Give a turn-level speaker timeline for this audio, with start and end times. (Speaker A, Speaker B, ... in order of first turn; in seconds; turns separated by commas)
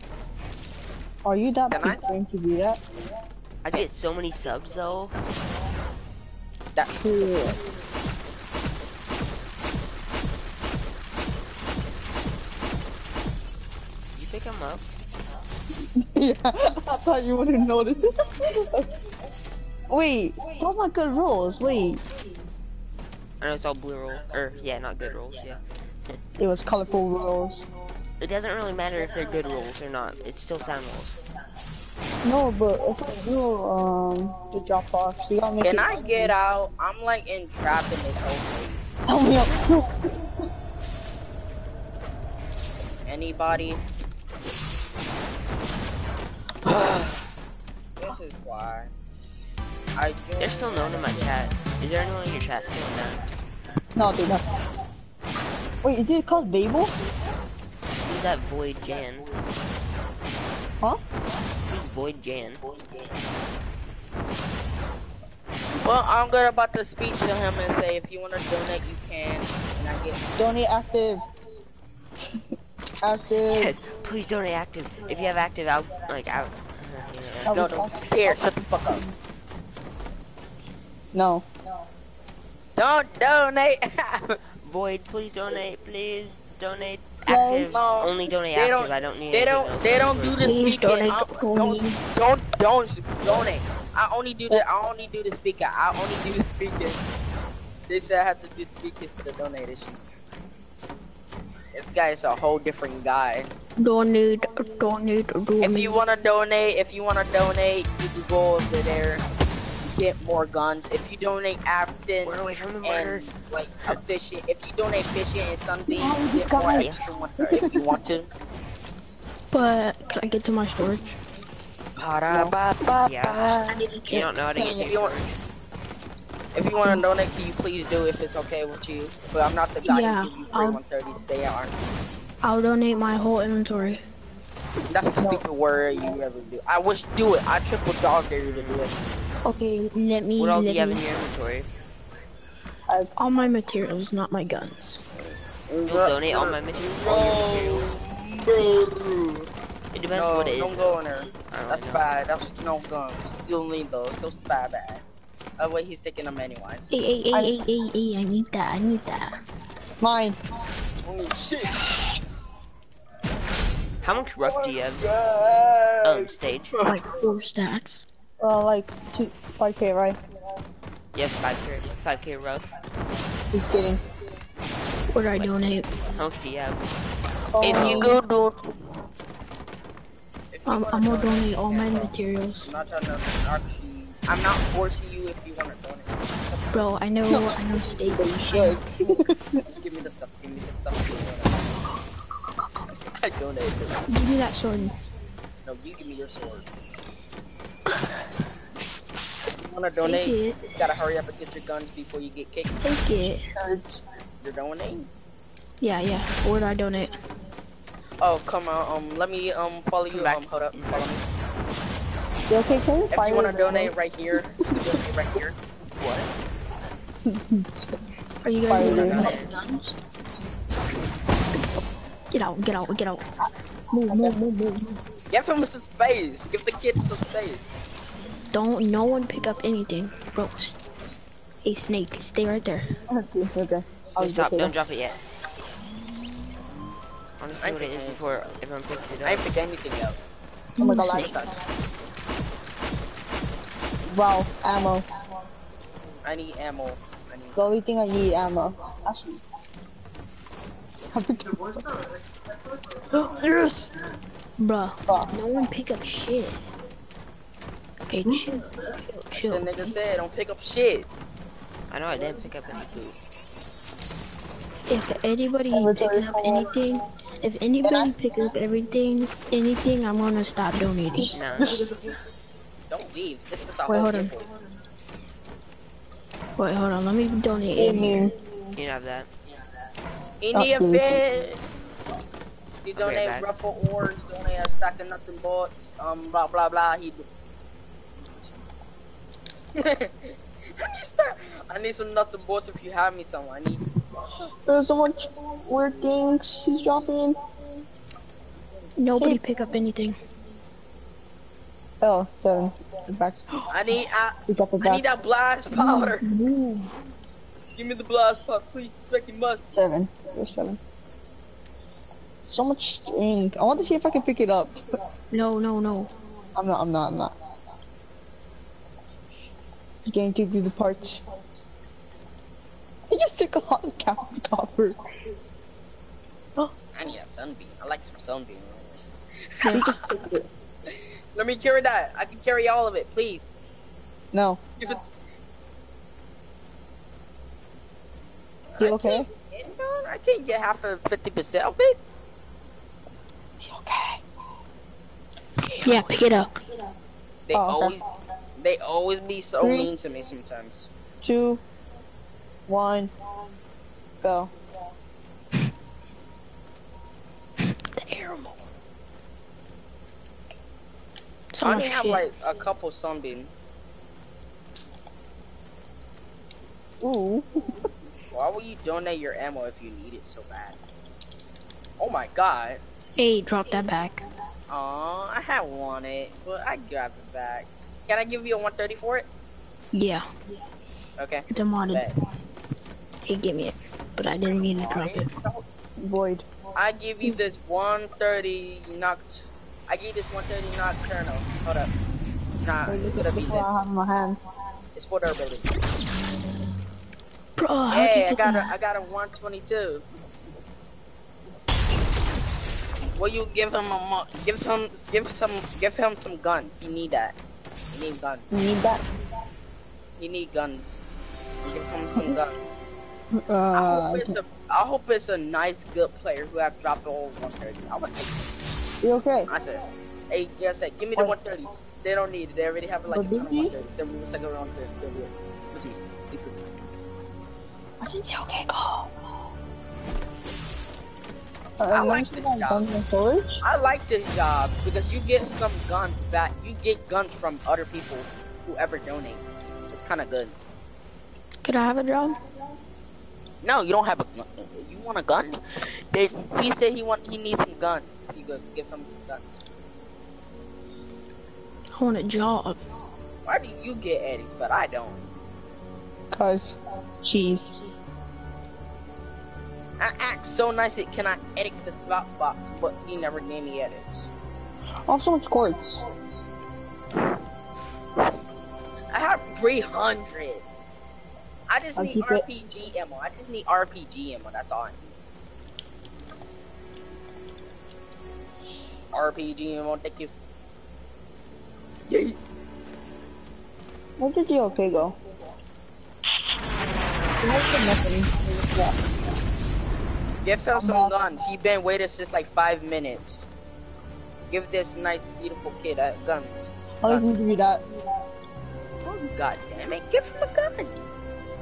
Speaker A: 1.2-2.8, Speaker B: 1.7-2.0, Speaker C: 3.6-5.1, Speaker B: 6.7-7.5, Speaker A: 6.9-7.6, Speaker C: 14.1-14.8, Speaker A: 15.9-18.9, Speaker A: 19.9-22.0, Speaker C: 23.4-26.2, Speaker A: 26.4-27.7, Speaker C: 28.2-31.2, Speaker A: 32.2-36.3, Speaker B: 35.6-39.0, Speaker A: 39.1-40.0, Speaker B: 43.1-43.8, Speaker B: 46.6-47.2, Speaker B: 48.0-48.9, Speaker B: 50.0-51.4, Speaker C: 50.4-53.2, Speaker A: 54.0-54.4, Speaker A: 55.8-56.9, Speaker C: 58.1-59.3, Speaker C: 61.7-62.6, Speaker B: 65.8-70.2, Speaker A: 70.4-71.2, Speaker A: 73.0-73.7, Speaker C: 73.5-77.7, Speaker A: 77.4-78.4, Speaker B: 77.5-79.0, Speaker A: 81.1-81.5, Speaker B: 82.8-84.4, Speaker C: 84.6-90.5, Speaker A: 87.3-87.8, Speaker B: 87.7-97.0, Speaker D: 90.4-92.0, Speaker B: 97.9-100.0, Speaker B: 101.7-103.5, Speaker D: 103.8-106.0, Speaker B: 105.6-109.2, Speaker B: 109.8-118.3, Speaker C: 112.2-113.3, Speaker A: 115.9-116.9, Speaker C: 116.7-117.1, Speaker A: 117.5-117.8, Speaker D: 119.5-121.2, Speaker B: 122.0-123.2, Speaker A: 122.3-122.6, Speaker C: 123.0-123.5, Speaker D: 123.2-124.7, Speaker C: 124.1-125.3, Speaker B: 124.5-125.2, Speaker B: 126.5-131.8, Speaker D: 129.8-130.8, Speaker D: 132.4-134.0, Speaker B: 134.9-139.0, Speaker A: 135.2-135.4, Speaker C: 138.4-139.4, Speaker D: 139.4-141.0, Speaker C: 140.4-141.7, Speaker D: 143.2-145.0, Speaker B: 145.2-149.5, Speaker C: 145.8-148.0, Speaker C: 149.9-152.3, Speaker B: 150.1-155.0, Speaker B: 155.6-156.9, Speaker D: 156.9-159.4, Speaker A: 160.0-160.4, Speaker B: 161.0-161.9, Speaker C: 164.0-165.0, Speaker B: 164.4-167.1, Speaker C: 166.0-166.8, Speaker D: 166.8-168.1, Speaker A: 168.4-170.2, Speaker C: 171.1-172.7, Speaker A: 173.5-174.0, Speaker D: 175.1-176.0, Speaker C: 175.3-176.9, Speaker C: 177.5-177.8, Speaker A: 177.5-178.2, Speaker B: 177.6-178.6, Speaker D: 177.6-178.2, Speaker B: 180.5-186.7, Speaker D: 180.7-182.7, Speaker D: 186.7-188.8, Speaker A: 187.3-189.6, Speaker B: 188.9-191.8, Speaker B: 193.2-194.0, Speaker D: 194.1-194.9, Speaker B: 195.6-196.7, Speaker B: 199.7-202.8, Speaker D: 199.9-200.8, Speaker D: 202.8-203.4, Speaker A: 203.6-204.0, Speaker B: 204.4-205.1, Speaker D: 205.8-207.2, Speaker B: 208.2-211.3, Speaker C: 210.1-211.1, Speaker A: 212.5-213.9, Speaker B: 213.1-215.6, Speaker C: 215.9-216.3, Speaker A: 217.2-218.0, Speaker D: 218.4-219.9, Speaker A: 218.7-219.3, Speaker B: 218.8-219.5, Speaker C: 219.1-219.4, Speaker D: 222.3-223.2, Speaker D: 223.9-224.7, Speaker A: 224.1-224.9, Speaker B: 225.3-227.6, Speaker D: 228.5-230.8, Speaker D: 231.6-232.9, Speaker A: 233.1-234.7, Speaker C: 234.2-235.2, Speaker C: 237.4-239.4, Speaker B: 237.6-238.5, Speaker B: 239.2-240.2, Speaker D: 240.8-241.4, Speaker A: 240.8-241.4, Speaker B: 241.1-241.5, Speaker A: 244.1-245.0, Speaker B: 246.2-247.6, Speaker A: 247.6-249.4, Speaker A: 251.1-251.8, Speaker A: 253.1-253.9, Speaker D: 254.6-256.6, Speaker D: 258.1-259.9, Speaker B: 259.4-261.1, Speaker C: 261.9-263.2, Speaker D: 264.9-271.9, Speaker A: 265.7-266.7, Speaker A: 267.8-268.1, Speaker A: 271.1-271.9, Speaker C: 271.3-271.7, Speaker B: 272.9-274.4, Speaker D: 273.9-274.3, Speaker D: 276.6-278.2, Speaker A: 277.7-278.3, Speaker C: 278.8-279.3, Speaker B: 280.4-281.6, Speaker A: 280.5-281.2, Speaker B: 282.8-287.2, Speaker C: 283.0-283.5, Speaker B: 289.8-293.8, Speaker A: 294.6-297.4, Speaker D: 299.0-300.1, Speaker A: 299.1-299.4, Speaker A: 302.0-303.7, Speaker B: 303.7-306.2, Speaker A: 304.5-305.0, Speaker D: 305.8-306.9, Speaker B: 307.8-309.6, Speaker A: 309.7-310.8, Speaker A: 312.5-314.8, Speaker D: 315.3-316.1, Speaker A: 316.5-317.3, Speaker A: 320.1-321.2, Speaker A: 323.1-324.9, Speaker B: 326.9-329.8, Speaker D: 329.6-330.0, Speaker A: 329.7-330.5, Speaker B: 330.9-333.5, Speaker A: 334.3-334.6, Speaker B: 338.7-342.0, Speaker A: 338.8-339.3, Speaker A: 343.6-344.2, Speaker D: 345.6-346.5, Speaker B: 347.5-348.0, Speaker A: 347.5-348.0, Speaker B: 348.6-350.9, Speaker A: 349.6-349.9, Speaker A: 351.2-351.6, Speaker A: 352.7-353.1, Speaker A: 354.2-354.5, Speaker D: 357.9-358.7, Speaker D: 361.5-362.2, Speaker B: 361.6-363.5, Speaker A: 367.0-367.9, Speaker B: 368.3-370.8, Speaker B: 372.0-372.8, Speaker D: 373.1-374.2, Speaker B: 374.7-379.3, Speaker D: 379.9-380.3, Speaker B: 381.2-382.1, Speaker D: 381.5-382.1, Speaker D: 383.2-385.5, Speaker B: 384.5-385.6, Speaker A: 386.0-386.5, Speaker B: 386.7-391.9, Speaker B: 392.6-393.7, Speaker A: 392.9-394.4, Speaker B: 394.9-395.8, Speaker D: 397.6-398.7, Speaker B: 397.9-400.0, Speaker B: 403.2-407.4, Speaker B: 407.9-408.4, Speaker A: 408.5-409.0, Speaker B: 410.2-411.0, Speaker B: 411.6-412.6, Speaker A: 413.3-414.3, Speaker B: 413.7-418.5, Speaker A: 419.0-419.5, Speaker B: 419.5-426.6, Speaker A: 423.1-423.7, Speaker A: 428.0-429.1, Speaker A: 431.8-433.6, Speaker B: 431.9-432.9, Speaker B: 433.6-440.6, Speaker D: 441.6-442.4, Speaker B: 443.6-449.6, Speaker D: 451.9-452.8, Speaker B: 453.4-455.2, Speaker A: 456.3-457.7, Speaker B: 460.0-464.3, Speaker A: 465.1-466.0, Speaker B: 469.1-470.6, Speaker B: 471.7-475.0, Speaker A: 471.9-472.4, Speaker B: 479.1-480.3, Speaker B: 482.1-482.4, Speaker A: 484.2-485.2, Speaker A: 487.4-489.0, Speaker B: 490.4-493.5, Speaker A: 490.7-491.1, Speaker B: 494.5-497.2, Speaker A: 497.0-497.8, Speaker B: 499.0-501.1